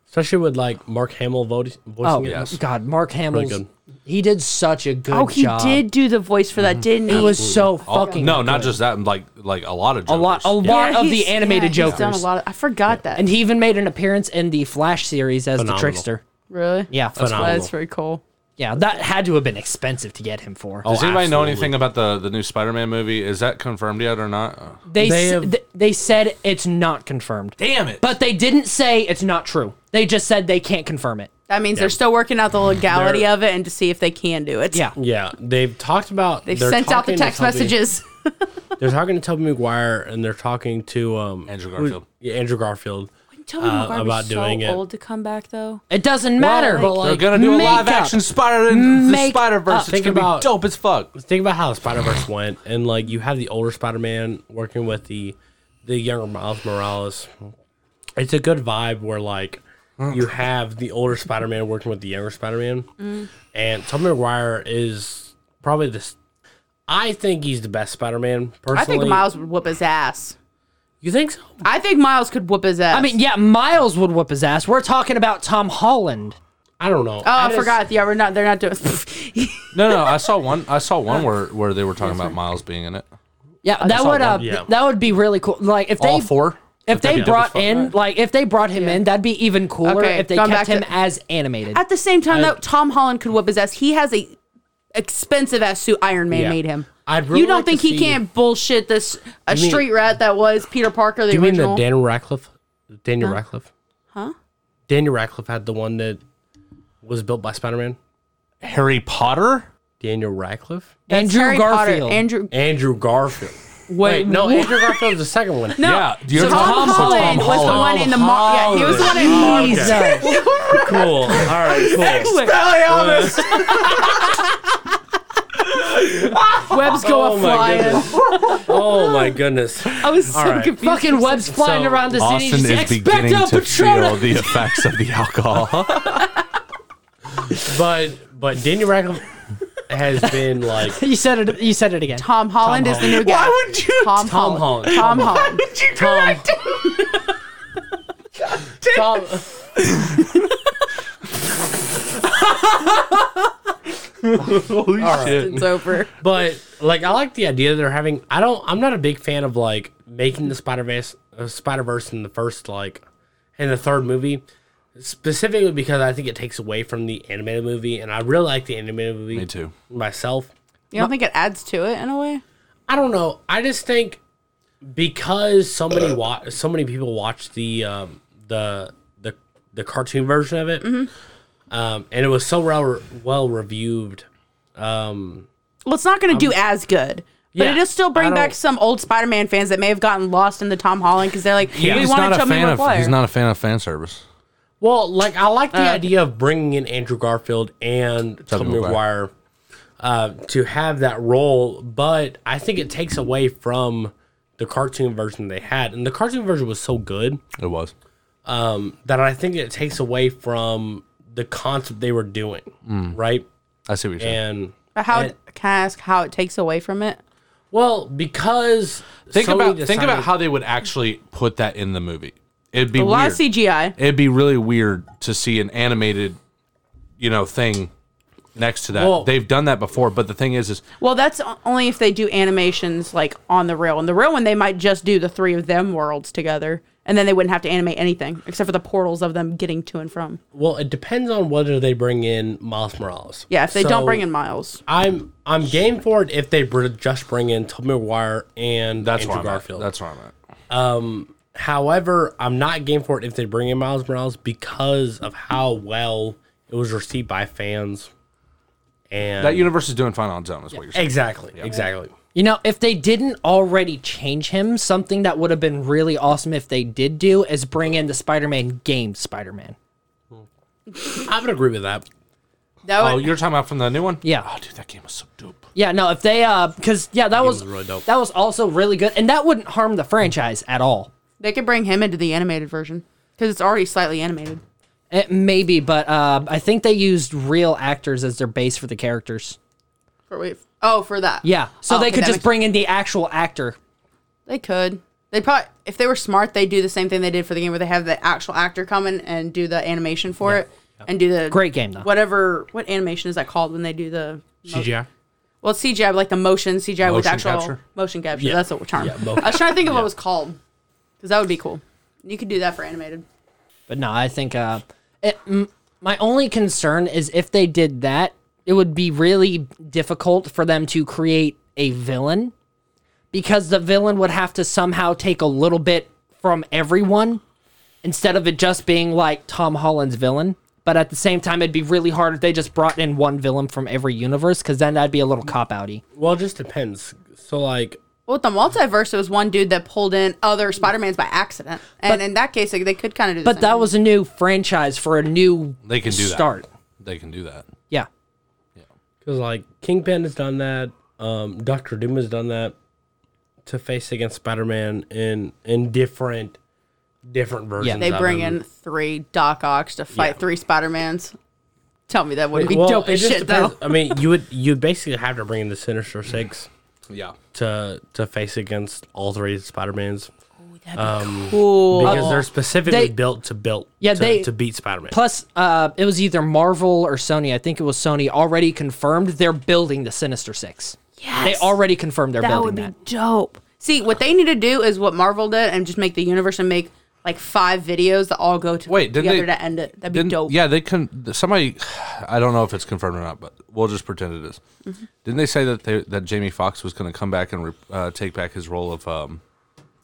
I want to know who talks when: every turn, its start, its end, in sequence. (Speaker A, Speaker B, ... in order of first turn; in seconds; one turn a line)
Speaker A: 0.1-2.6
Speaker B: 2.0-5.8
Speaker C: 2.2-2.6
Speaker A: 3.3-3.7
Speaker D: 5.1-8.2
Speaker B: 7.1-8.8
Speaker A: 7.2-7.7
Speaker C: 7.8-10.8
Speaker B: 10.1-12.2
Speaker D: 10.6-13.2
Speaker B: 13.2-16.2
Speaker A: 15.6-16.1
Speaker D: 16.5-18.2
Speaker B: 16.9-17.4
Speaker A: 17.1-17.7
Speaker B: 18.6-20.9
Speaker A: 20.8-21.8
Speaker C: 20.8-24.8
Speaker B: 24.9-31.3
Speaker A: 25.0-25.5
Speaker C: 27.6-28.0
Speaker D: 31.5-34.8
Speaker A: 32.9-33.3
Speaker A: 35.0-37.8
Speaker D: 36.5-38.5
Speaker A: 38.8-44.8
Speaker C: 41.5-42.0
Speaker D: 43.4-45.8
Speaker B: 45.9-50.0
Speaker A: 46.4-47.7
Speaker C: 47.0-51.1
Speaker A: 49.9-50.5
Speaker A: 51.1-57.4
Speaker A: 58.2-62.9
Speaker C: 60.0-60.3
Speaker D: 63.0-63.3
Speaker A: 63.5-66.2
Speaker A: 66.9-69.2
Speaker D: 68.7-70.3
Speaker A: 71.0-71.6
Speaker D: 71.6-73.1
Speaker B: 72.9-76.4
Speaker A: 76.8-77.8
Speaker D: 77.2-80.2
Speaker C: 79.7-83.1
Speaker D: 82.0-82.3
Speaker B: 83.6-86.3
Speaker A: 83.8-84.7
Speaker C: 86.0-87.9
Speaker B: 86.9-91.8
Speaker A: 87.0-87.3
Speaker D: 88.7-89.0
Speaker D: 89.8-90.9
Speaker D: 91.7-94.3
Speaker A: 92.3-92.6
Speaker D: 94.9-101.8
Speaker A: 96.3-98.2
Speaker A: 99.5-99.8
Speaker A: 101.3-103.7
Speaker A: 104.9-106.2
Speaker A: 107.0-108.0
Speaker C: 108.6-109.7
Speaker A: 110.0-110.9
Speaker D: 111.1-112.5
Speaker B: 111.1-112.2
Speaker A: 112.5-115.9
Speaker D: 113.9-115.0
Speaker D: 115.8-122.7
Speaker C: 115.8-118.0
Speaker B: 116.3-118.1
Speaker A: 117.6-123.7
Speaker B: 119.1-120.4
Speaker C: 119.2-124.4
Speaker D: 123.4-124.0
Speaker C: 125.6-126.8
Speaker D: 126.6-129.3
Speaker A: 126.9-130.8
Speaker C: 128.1-128.7
Speaker D: 129.8-131.5
Speaker B: 130.7-134.7
Speaker A: 131.4-132.2
Speaker C: 132.2-136.3
Speaker A: 137.5-139.3
Speaker A: 139.8-141.0
Speaker B: 140.8-143.2
Speaker D: 142.2-145.7
Speaker C: 143.0-144.3
Speaker A: 144.2-146.5
Speaker C: 144.8-147.0
Speaker C: 148.6-150.5
Speaker A: 148.9-149.4
Speaker C: 152.2-153.2
Speaker C: 154.2-155.6
Speaker A: 155.0-163.0
Speaker D: 155.0-156.1
Speaker A: 163.6-164.4
Speaker A: 164.9-170.5
Speaker C: 169.3-169.7
Speaker D: 170.9-172.4
Speaker A: 172.9-174.2
Speaker A: 174.8-180.9
Speaker D: 180.8-181.1
Speaker A: 181.7-185.5
Speaker D: 185.8-193.1
Speaker A: 187.5-188.5
Speaker C: 191.7-194.2
Speaker A: 191.8-192.1
Speaker A: 194.8-199.3
Speaker D: 195.7-196.1
Speaker C: 198.5-199.0
Speaker A: 200.0-207.4
Speaker C: 207.6-207.9
Speaker A: 208.4-213.5
Speaker C: 212.8-213.2
Speaker C: 213.9-214.4
Speaker A: 214.2-215.3
Speaker D: 214.9-217.2
Speaker A: 217.7-220.3
Speaker C: 219.3-223.4
Speaker D: 222.9-223.9
Speaker C: 223.9-226.4
Speaker C: 227.2-227.9
Speaker C: 228.5-230.8
Speaker A: 228.9-229.3
Speaker D: 231.0-240.4
Speaker A: 240.5-244.2
Speaker D: 243.5-244.8
Speaker A: 244.8-249.9
Speaker C: 249.0-250.3
Speaker A: 250.7-258.1
Speaker A: 259.1-259.7
Speaker C: 259.4-261.7
Speaker A: 260.9-262.1
Speaker B: 262.3-269.8
Speaker A: 271.1-272.1
Speaker D: 272.8-273.3
Speaker C: 273.0-275.6
Speaker B: 275.8-281.1
Speaker A: 277.3-278.0
Speaker D: 281.4-284.6
Speaker B: 285.1-289.6
Speaker D: 290.3-292.5
Speaker B: 291.4-293.8
Speaker D: 294.5-304.9
Speaker B: 301.5-302.1
Speaker A: 304.7-305.1
Speaker D: 305.6-310.6
Speaker C: 307.0-307.8
Speaker A: 308.4-310.1
Speaker D: 311.2-313.2
Speaker B: 313.9-322.5
Speaker B: 323.3-327.4
Speaker B: 328.0-336.0
Speaker A: 336.1-338.0
Speaker D: 338.3-343.9
Speaker B: 343.4-346.6
Speaker C: 345.8-346.5
Speaker C: 347.0-347.7
Speaker A: 349.2-352.7
Speaker A: 353.6-356.6
Speaker A: 357.2-358.6
Speaker D: 358.0-361.3
Speaker D: 362.1-364.1
Speaker A: 362.5-366.7
Speaker C: 367.1-367.3
Speaker A: 367.5-370.3
Speaker D: 370.7-372.4
Speaker A: 370.9-375.2
Speaker B: 372.0-373.1
Speaker B: 374.0-374.5
Speaker B: 375.1-382.9
Speaker D: 381.2-381.8
Speaker D: 382.4-390.6
Speaker C: 388.9-389.5
Speaker C: 390.1-394.6
Speaker C: 395.2-399.4